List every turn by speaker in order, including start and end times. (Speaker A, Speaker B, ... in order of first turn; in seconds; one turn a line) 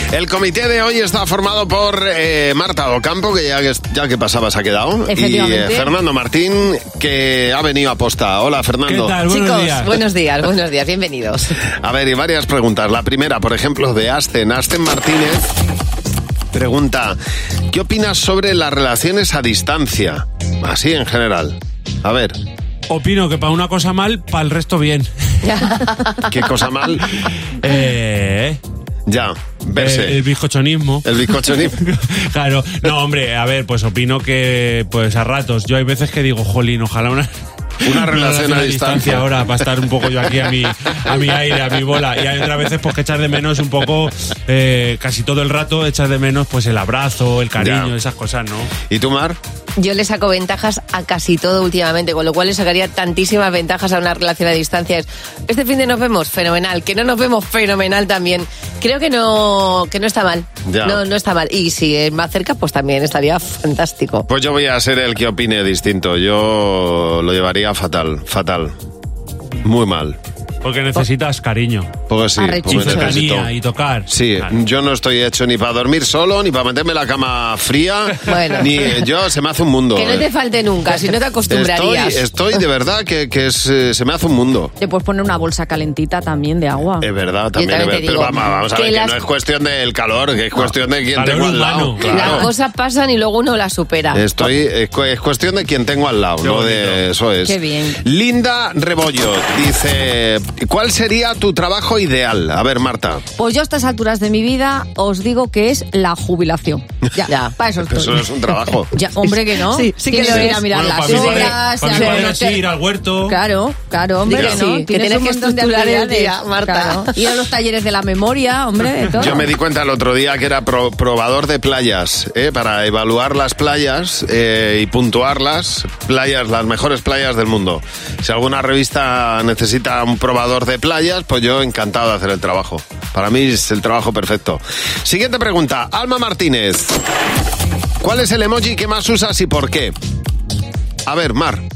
Speaker A: 0.1-9.2
Speaker B: 5.1-5.9
Speaker C: 8.9-9.9
Speaker D: 9.3-11.6
Speaker A: 11.8-15.5
Speaker A: 16.5-17.2
Speaker A: 17.7-22.4
Speaker C: 22.9-25.1
Speaker D: 25.4-26.3
Speaker A: 26.3-27.1
Speaker C: 27.2-28.6
Speaker A: 29.1-30.2
Speaker C: 29.8-48.7
Speaker A: 31.0-31.8
Speaker A: 37.8-39.6
Speaker A: 47.6-48.0
Speaker A: 48.9-49.4
Speaker D: 49.8-64.3
Speaker A: 60.6-61.0
Speaker A: 64.3-68.7
Speaker A: 69.6-70.2
Speaker C: 70.6-71.9
Speaker A: 72.1-73.5
Speaker D: 72.4-73.2
Speaker C: 72.7-74.5
Speaker A: 74.1-80.3
Speaker D: 78.2-78.9
Speaker D: 80.0-82.3
Speaker A: 81.5-84.7
Speaker B: 84.8-87.1
Speaker A: 87.0-92.5
Speaker D: 87.6-89.2
Speaker C: 91.1-92.5
Speaker D: 92.0-94.5
Speaker A: 94.1-103.2
Speaker C: 96.4-97.0
Speaker B: 97.5-98.0
Speaker B: 103.4-108.3
Speaker D: 107.3-107.5
Speaker A: 107.8-108.9
Speaker B: 108.9-112.6
Speaker D: 109.2-112.3
Speaker C: 110.2-113.4
Speaker B: 113.2-119.5
Speaker D: 114.2-117.2
Speaker A: 114.3-114.6
Speaker A: 119.1-137.0
Speaker A: 138.0-139.9
Speaker A: 141.1-141.6